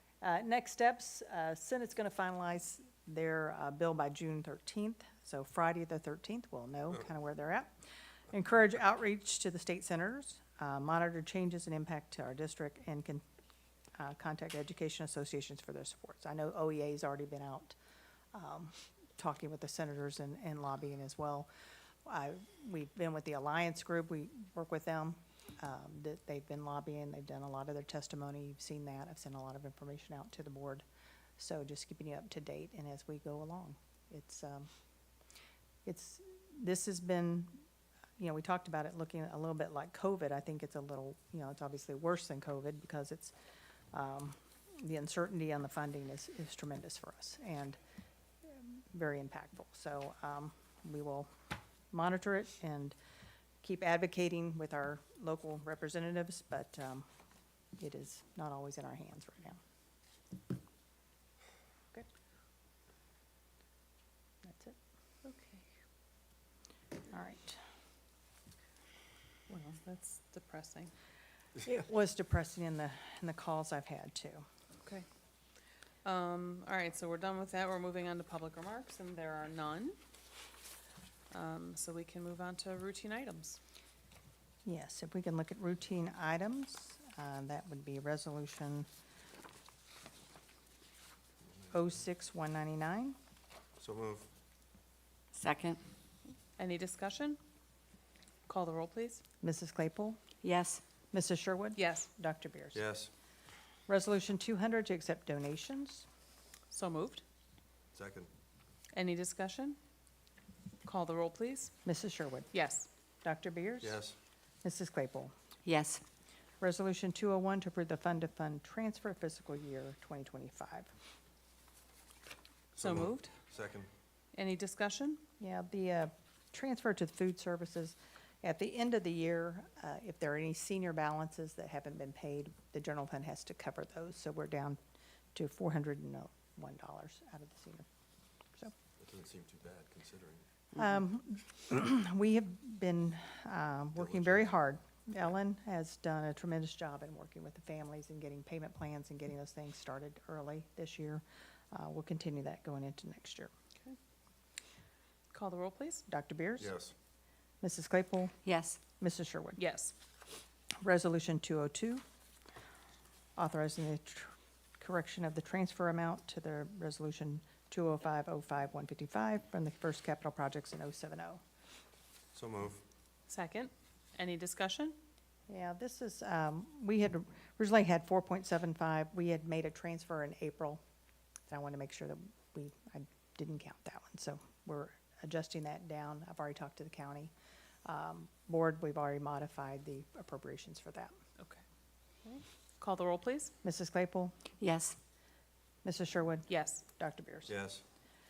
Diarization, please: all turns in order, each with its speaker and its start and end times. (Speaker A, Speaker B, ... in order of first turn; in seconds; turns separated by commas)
Speaker A: 0.2-7.8, Speaker A: 8.3-13.2, Speaker A: 14.0-17.8, Speaker A: 18.3-21.5, Speaker A: 22.1-30.8, Speaker A: 31.4-34.7, Speaker A: 35.9-37.6, Speaker A: 38.2-43.3, Speaker A: 43.9-47.8, Speaker A: 48.5-51.3, Speaker A: 51.9-53.0, Speaker A: 53.6-57.1, Speaker A: 57.8-59.6, Speaker A: 64.4-64.8, Speaker B: 65.2-65.6, Speaker A: 67.1-67.6, Speaker B: 69.5-70.9, Speaker A: 71.6-74.5, Speaker B: 76.0-80.0, Speaker B: 81.3-83.6, Speaker A: 84.7-88.9, Speaker A: 91.7-93.2, Speaker C: 93.8-94.3, Speaker D: 95.3-95.8, Speaker B: 96.6-97.4, Speaker B: 98.5-99.2, Speaker A: 99.4-100.2, Speaker D: 100.4-100.8, Speaker A: 101.1-102.8, Speaker B: 101.8-102.1, Speaker C: 102.7-103.1, Speaker A: 103.9-106.1, Speaker B: 106.7-107.2, Speaker C: 107.9-108.3, Speaker B: 108.9-109.8, Speaker B: 110.8-111.7, Speaker A: 111.8-112.5, Speaker B: 112.5-112.9, Speaker A: 113.2-114.0, Speaker C: 113.8-114.2, Speaker A: 114.6-115.3, Speaker D: 115.7-116.0, Speaker A: 116.6-120.9, Speaker B: 122.8-123.3, Speaker C: 122.8-123.9, Speaker B: 124.3-125.2, Speaker A: 125.4-134.8, Speaker A: 135.3-137.9, Speaker C: 139.0-140.4, Speaker A: 140.8-153.5, Speaker C: 143.9-144.5, Speaker B: 155.3-156.1, Speaker A: 156.1-156.7, Speaker C: 156.6-156.9, Speaker A: 157.6-158.4, Speaker D: 158.4-158.8, Speaker A: 159.0-159.6, Speaker B: 159.6-159.9, Speaker A: 160.8-162.0, Speaker A: 163.4-171.4, Speaker C: 172.3-172.8, Speaker B: 173.3-175.0, Speaker A: 175.5-180.8, Speaker A: 181.5-187.3, Speaker A: 187.8-191.2, Speaker B: 192.2-193.5, Speaker A: 193.6-194.3, Speaker D: 194.6-195.0, Speaker A: 195.8-197.5, Speaker B: 196.5-196.8, Speaker C: 197.5-197.8